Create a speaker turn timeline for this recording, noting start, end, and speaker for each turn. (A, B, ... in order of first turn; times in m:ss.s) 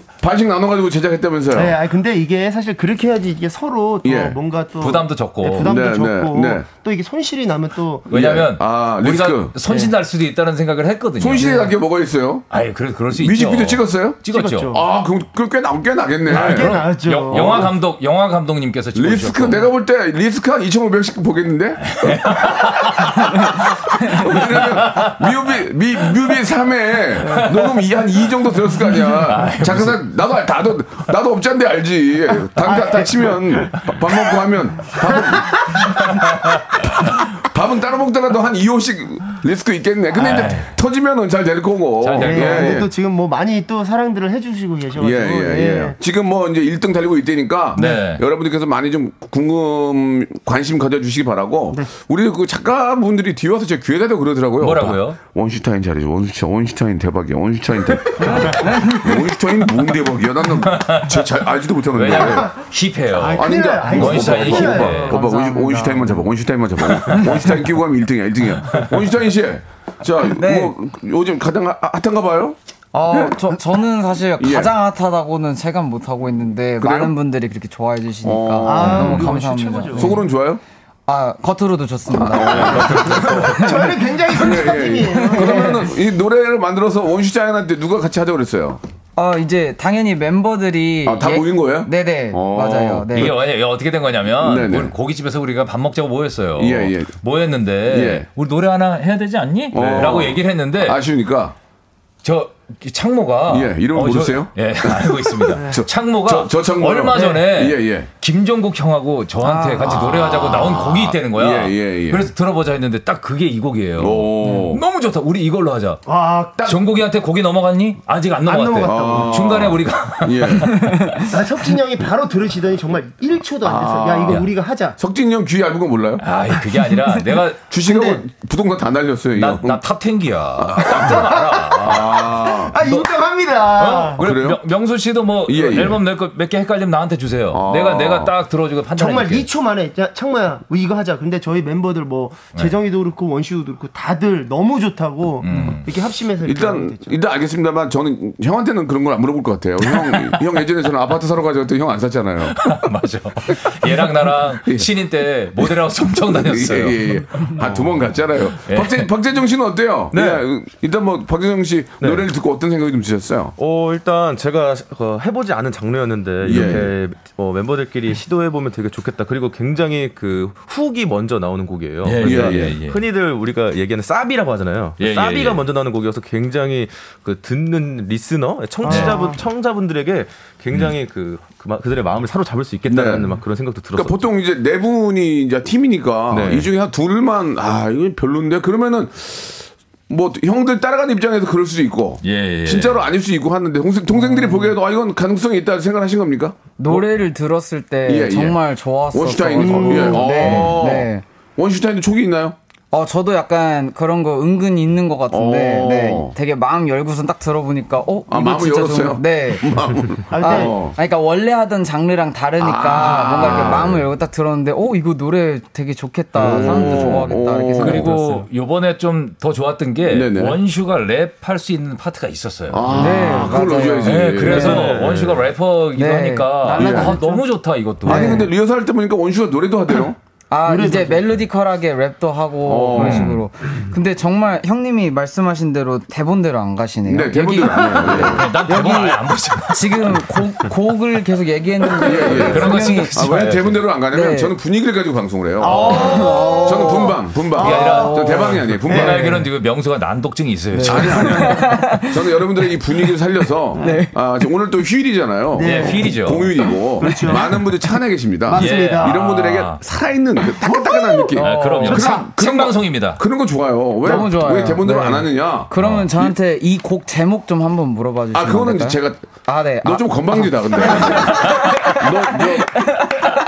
0:00.2-0:01.8 A
0:01.5-0:08.1 B
0:04.0-0:04.4 A
0:04.8-0:05.7 C
0:05.6-0:06.7 A
0:08.1-0:09.5 A
0:08.1-0:11.7 C
0:09.7-0:09.9 B
0:11.2-0:12.4 A
0:12.5-0:14.8 C
0:13.1-0:17.7 A
0:14.3-0:14.8 B
0:16.3-0:17.7 B
0:16.3-0:19.7 C
0:18.9-0:42.9 A
0:21.8-0:25.2 C
0:27.3-0:27.8 C
0:29.0-0:30.0 C
0:32.6-0:33.7 B
0:40.1-0:40.7 C
0:42.0-0:42.8 C
0:42.2-0:46.0 B
0:45.0-1:02.5 A
0:47.7-0:48.2 C
0:54.6-0:55.2 C
0:58.2-0:59.1 D
0:58.3-0:58.5 B
1:00.7-1:01.2 C
1:01.9-1:05.2 C
1:02.2-1:02.5 B
1:03.1-1:05.4 B
1:03.3-1:12.6 A
1:05.1-1:06.1 D
1:10.2-1:10.7 D
1:12.9-1:20.2 D
1:13.1-1:13.4 A
1:14.4-1:14.7 A
1:16.8-1:17.1 A
1:18.2-1:19.3 A
1:18.6-1:20.2 B
1:19.9-1:20.6 A
1:21.1-1:24.0 D
1:22.1-1:23.6 A
1:22.5-1:25.8 B
1:22.7-1:23.2 C
1:24.3-1:28.8 A
1:25.3-1:25.7 D
1:29.2-1:33.3 D
1:31.0-1:33.4 A
1:33.1-1:41.0 C
1:34.4-1:34.9 A
1:36.6-1:37.1 A
1:37.9-1:38.3 A
1:39.7-1:41.5 A
1:42.2-1:56.0 C
1:43.5-1:48.1 A
1:49.4-1:49.9 D
1:49.8-1:52.3 A
1:54.0-1:54.8 A
1:56.0-1:56.6 B
1:56.6-2:01.3 C
1:58.5-1:59.5 B
1:58.8-2:01.0 A
2:01.3-2:05.0 B
2:03.6-2:04.4 A
2:05.0-2:06.2 A
2:06.2-2:07.6 C
2:07.7-2:09.8 A
2:07.8-2:08.2 B
2:09.4-2:13.1 C
2:10.6-2:12.8 A
2:10.9-2:14.2 B
2:13.6-2:19.5 C
2:14.2-2:14.6 A
2:15.4-2:16.0 A
2:17.5-2:18.3 A
2:19.0-2:27.1 B
2:25.4-2:25.9 C
2:26.4-2:32.7 A
2:29.9-2:30.3 C
2:32.5-2:37.7 C
2:33.5-2:34.9 A
2:35.6-2:43.5 A
2:38.6-2:39.1 C
2:40.1-2:40.4 E
2:43.6-3:04.2 E
2:46.4-2:46.9 A
2:52.0-2:53.0 C
2:52.2-2:52.8 A
2:55.0-2:55.6 C
2:58.8-2:59.4 B
2:58.8-2:59.2 C
3:02.9-3:03.4 A
3:03.9-3:16.6 A
3:06.3-3:06.7 E
3:12.2-3:13.0 C
3:16.8-3:21.2 D
3:18.0-3:18.6 A
3:19.1-3:22.6 A
3:19.6-3:20.6 B
3:22.9-3:29.8 D
3:25.3-3:26.3 A
3:28.3-3:31.0 A
3:30.3-3:30.8 B
3:30.4-3:38.4 D
3:32.6-3:34.1 A
3:36.4-3:38.1 A
3:37.8-3:43.0 C
3:40.0-3:40.6 A
3:42.7-3:44.9 A
3:42.9-3:43.3 E
3:42.9-3:44.9 D
3:44.0-3:48.4 C
3:44.4-3:45.5 E
3:46.0-3:47.4 D
3:46.7-3:47.2 A
3:48.0-3:50.2 A
3:48.0-3:48.5 D
3:50.5-4:03.2 D
3:50.6-3:51.4 B
3:52.6-3:53.4 A
3:53.0-3:53.4 C
3:57.0-3:58.5 A
3:58.0-4:00.4 C
4:02.0-4:09.3 A
4:02.1-4:03.8 C
4:04.1-4:04.6 D
4:05.6-4:08.2 B
4:05.7-4:09.4 D
4:07.6-4:11.7 C
4:08.9-4:09.2 B
4:10.7-4:12.1 D
4:10.8-4:26.3 A
4:13.8-4:14.1 D
4:15.5-4:17.7 B
4:15.6-4:16.5 C
4:18.5-4:19.2 B
4:18.5-4:19.8 C
4:20.9-4:21.3 B
4:21.4-4:22.1 D
4:21.4-4:23.2 C
4:24.0-4:32.4 D
4:25.8-4:26.1 C
4:28.3-4:29.2 A
4:29.8-4:32.9 A